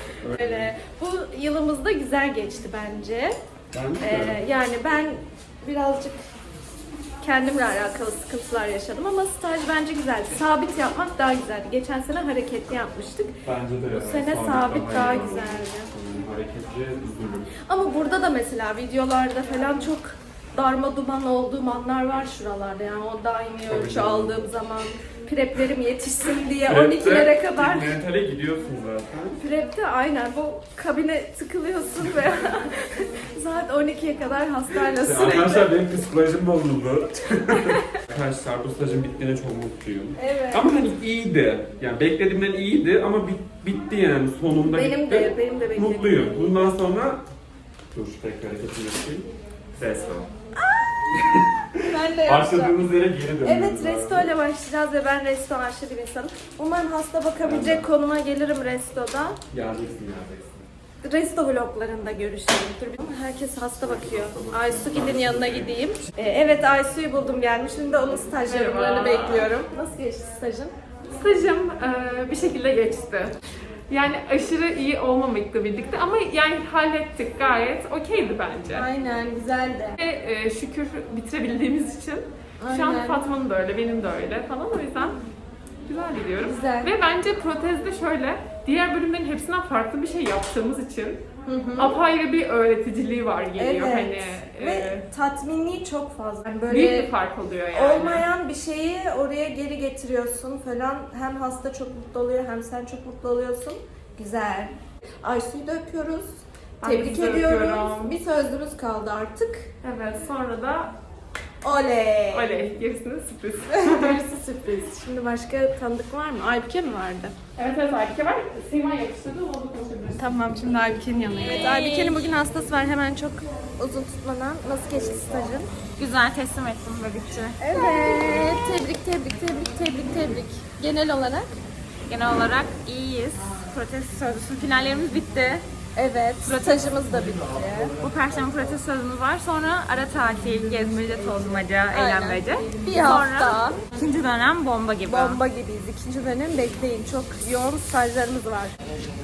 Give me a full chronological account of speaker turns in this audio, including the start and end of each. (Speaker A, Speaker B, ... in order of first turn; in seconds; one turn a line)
Speaker A: 0.2-0.7
Speaker B: 0.3-3.4
Speaker A: 3.7-4.4
Speaker B: 4.0-6.2
Speaker B: 7.2-13.4
Speaker A: 13.4-17.5
Speaker B: 13.9-15.9
Speaker B: 17.6-28.0
Speaker A: 23.7-24.5
Speaker A: 26.7-29.4
Speaker B: 29.4-35.7
Speaker A: 34.9-47.2
Speaker B: 40.2-40.7
Speaker B: 44.7-46.9
Speaker A: 47.9-50.3
Speaker B: 50.6-50.9
Speaker A: 51.1-51.6
Speaker B: 51.8-52.8
Speaker A: 52.2-54.3
Speaker B: 53.4-59.4
Speaker A: 57.4-57.9
Speaker A: 59.5-60.7
Speaker B: 61.0-70.7
Speaker A: 63.8-65.8
Speaker C: 68.5-69.5
Speaker C: 71.1-73.4
Speaker C: 73.9-78.9
Speaker B: 78.7-80.0
Speaker C: 80.0-85.2
Speaker B: 82.6-83.2
Speaker C: 85.9-91.2
Speaker B: 86.4-86.9
Speaker B: 91.5-92.0
Speaker C: 91.8-95.0
Speaker B: 93.5-97.1
Speaker C: 96.7-98.3
Speaker B: 97.7-109.7
Speaker C: 106.8-108.2
Speaker C: 109.8-111.0
Speaker B: 111.6-112.7
Speaker C: 112.3-114.2
Speaker B: 113.7-117.3
Speaker C: 117.6-120.3
Speaker B: 120.1-125.7
Speaker D: 121.4-122.3
Speaker D: 126.0-127.6
Speaker B: 127.6-131.5
Speaker D: 132.1-135.7
Speaker B: 135.9-137.9
Speaker D: 136.4-136.8
Speaker D: 138.0-145.4
Speaker B: 141.9-143.8
Speaker B: 145.1-148.8